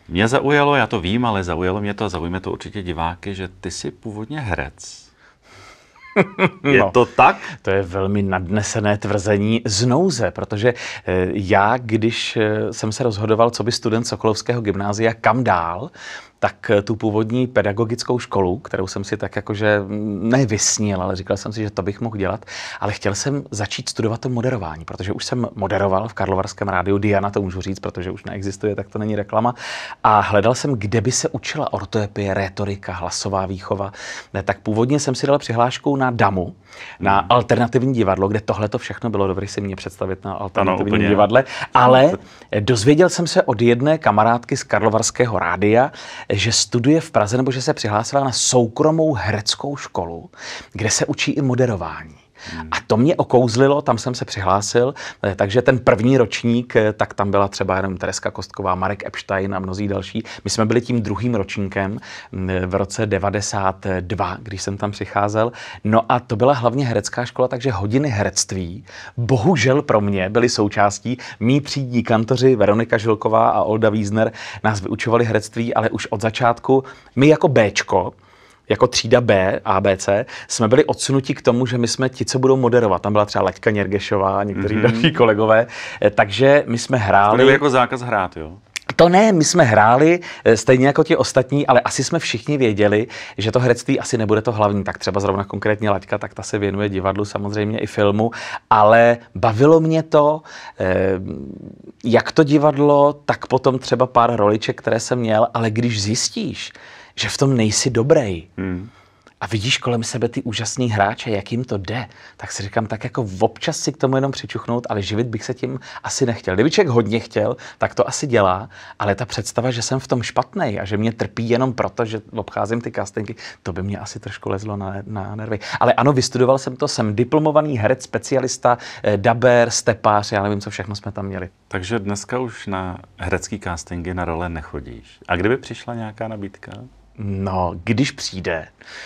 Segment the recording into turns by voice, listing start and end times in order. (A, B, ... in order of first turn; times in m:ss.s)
0:00.1-0:05.1 A
0:06.2-0:07.0 B
0:06.7-0:07.5 A
0:07.5-1:18.2 B
0:37.0-0:37.3 A
0:40.6-0:41.3 A
0:52.5-0:52.8 A
1:18.7-1:27.6 B
1:24.5-1:25.2 A
1:27.3-1:28.6 A
1:28.9-1:48.5 B
1:48.6-1:48.9 A
1:49.4-2:11.5 B
2:11.7-2:16.9 A
2:17.2-2:18.7 B